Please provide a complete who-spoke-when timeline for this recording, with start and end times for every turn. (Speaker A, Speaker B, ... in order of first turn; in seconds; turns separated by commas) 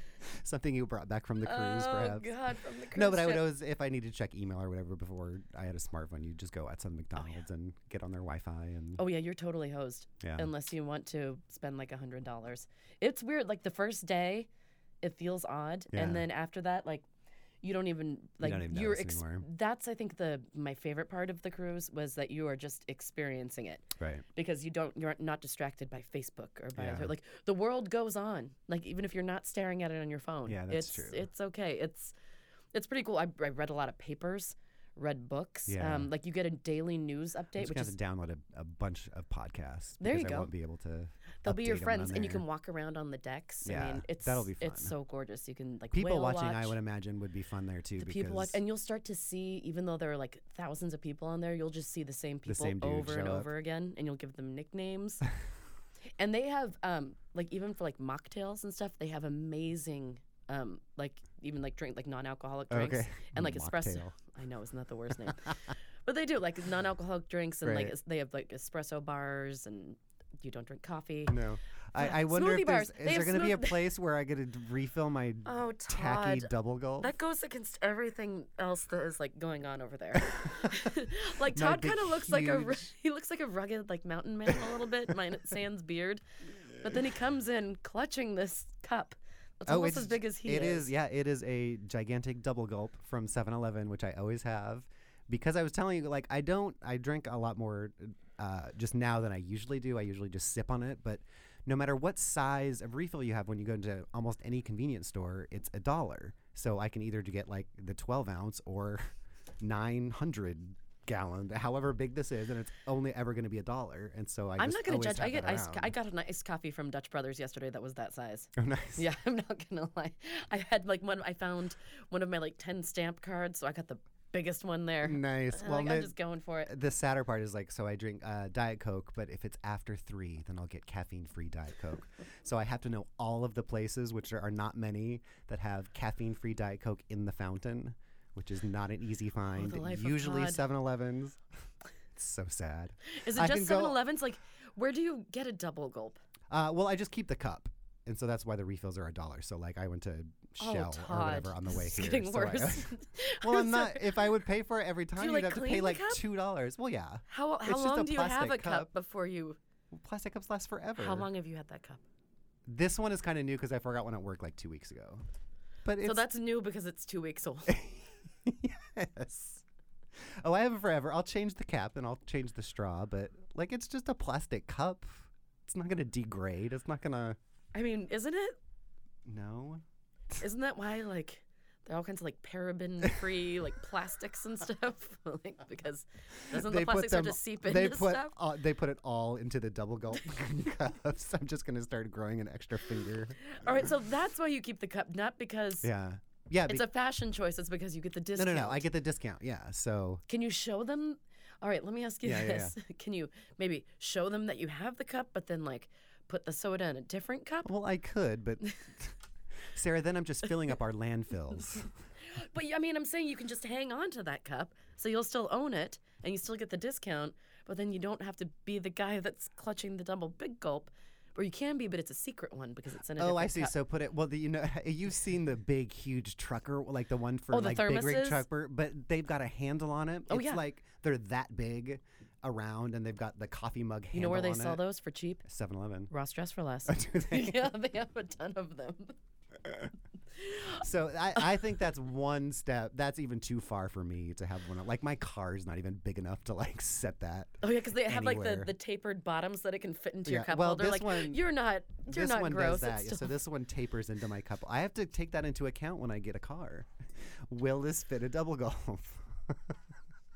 Speaker A: 0.2-2.4, Speaker B: 1.4-3.5, Speaker A: 2.9-9.0, Speaker B: 9.0-14.5, Speaker A: 10.2-10.5, Speaker B: 15.0-17.1, Speaker A: 15.9-16.3, Speaker B: 17.6-32.1, Speaker A: 18.4-19.4, Speaker A: 24.0-24.2, Speaker A: 26.8-27.1, Speaker A: 30.5-31.3, Speaker B: 32.7-38.0, Speaker A: 35.7-36.1, Speaker A: 37.6-42.4, Speaker B: 40.0-40.5, Speaker B: 41.4-46.8, Speaker A: 43.6-44.9, Speaker A: 45.9-48.6, Speaker B: 48.0-55.3, Speaker A: 52.5-53.5, Speaker B: 56.2-71.4, Speaker A: 62.7-64.1, Speaker A: 67.6-67.9, Speaker A: 71.3-77.1, Speaker B: 72.0-73.9, Speaker B: 75.5-86.2, Speaker A: 80.3-80.9, Speaker A: 81.4-82.9, Speaker B: 86.8-90.9, Speaker A: 89.7-115.9, Speaker B: 114.6-126.7, Speaker A: 118.6-119.0, Speaker A: 125.0-126.2, Speaker A: 126.7-141.4, Speaker B: 139.5-140.6, Speaker A: 142.2-144.0, Speaker B: 143.1-146.2, Speaker A: 146.5-158.9, Speaker B: 150.6-154.3, Speaker B: 155.2-156.2, Speaker B: 157.3-159.6, Speaker A: 159.9-161.3, Speaker B: 161.0-162.0, Speaker A: 162.7-165.2, Speaker A: 165.8-166.2, Speaker B: 166.0-167.8, Speaker A: 167.7-169.6, Speaker A: 170.2-177.4, Speaker B: 177.7-178.6, Speaker A: 179.2-180.4, Speaker B: 180.4-188.3, Speaker A: 186.5-193.4, Speaker B: 193.4-195.9, Speaker A: 195.8-196.9, Speaker B: 196.7-198.9, Speaker A: 198.3-200.2, Speaker B: 200.3-207.7, Speaker A: 202.2-202.8, Speaker A: 207.7-209.2, Speaker A: 209.7-211.9, Speaker B: 211.7-223.8, Speaker A: 223.2-234.8, Speaker B: 227.5-228.4, Speaker B: 230.3-230.6, Speaker B: 234.1-235.4, Speaker A: 235.4-236.1, Speaker B: 236.1-239.2, Speaker A: 236.9-237.7, Speaker B: 240.4-240.8, Speaker A: 240.7-248.7, Speaker B: 247.6-253.3, Speaker A: 250.2-251.4, Speaker A: 252.1-259.8